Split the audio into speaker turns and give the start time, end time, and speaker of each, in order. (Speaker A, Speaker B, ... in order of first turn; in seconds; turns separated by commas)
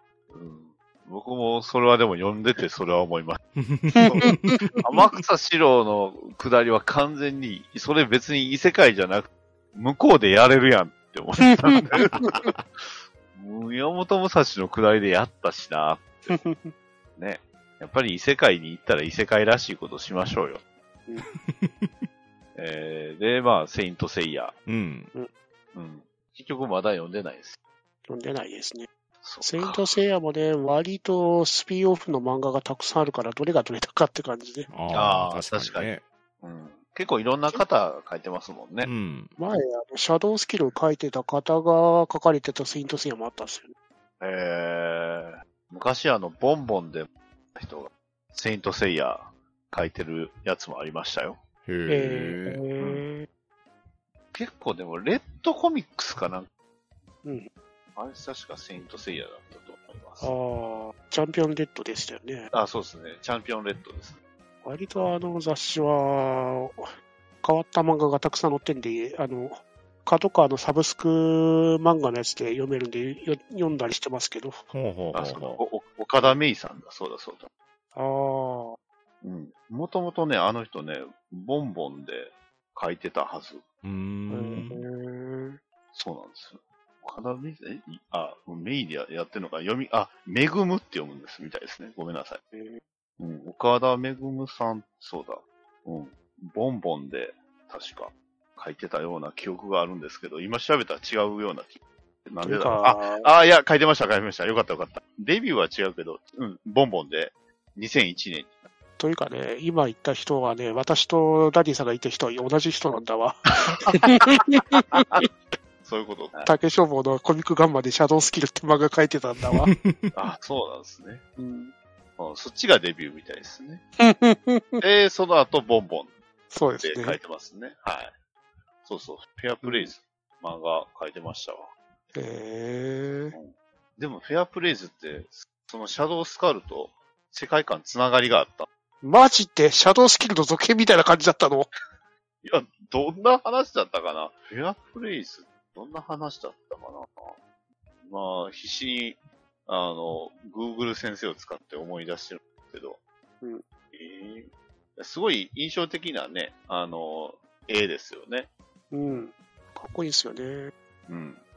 Speaker A: 0.3-3.4, Speaker B: 3.5-4.9, Speaker C: 3.9-4.8, Speaker A: 4.0-12.5, Speaker C: 11.5-12.5, Speaker B: 12.1-12.6, Speaker A: 13.3-16.4, Speaker C: 16.3-16.7, Speaker A: 17.2-20.6, Speaker B: 21.2-21.9, Speaker A: 22.5-24.6, Speaker B: 24.6-25.1, Speaker A: 25.7-27.6, Speaker C: 28.1-28.9, Speaker A: 29.2-29.9, Speaker C: 29.4-34.7, Speaker B: 34.7-36.0, Speaker A: 34.9-38.9, Speaker B: 38.8-39.3, Speaker C: 39.4-43.7, Speaker A: 44.2-51.4, Speaker B: 51.6-52.6, Speaker C: 51.9-53.3, Speaker A: 52.8-53.0, Speaker A: 54.3-56.5, Speaker A: 58.0-60.3, Speaker C: 60.2-62.5, Speaker A: 62.5-64.2, Speaker C: 64.6-66.9, Speaker C: 67.4-74.6, Speaker B: 74.7-75.6, Speaker A: 75.1-77.5, Speaker C: 77.9-78.8, Speaker A: 79.2-83.6, Speaker B: 83.8-84.8, Speaker C: 84.3-85.6, Speaker A: 85.9-92.4, Speaker C: 92.5-92.8, Speaker A: 93.2-108.6, Speaker C: 102.4-103.3, Speaker C: 109.0-115.3, Speaker A: 114.9-115.3, Speaker A: 115.8-116.5, Speaker C: 116.4-119.7, Speaker B: 119.5-120.1, Speaker A: 120.1-121.2, Speaker C: 121.4-121.7, Speaker A: 122.2-123.8, Speaker C: 124.0-124.8, Speaker A: 124.8-126.1, Speaker C: 126.5-127.2, Speaker A: 126.8-128.1, Speaker A: 128.8-131.7, Speaker C: 129.6-129.9, Speaker C: 132.1-133.3, Speaker A: 133.3-138.7, Speaker C: 139.0-141.7, Speaker A: 142.4-147.4, Speaker A: 148.0-153.0, Speaker A: 153.9-158.5, Speaker C: 158.9-160.7, Speaker A: 161.1-161.4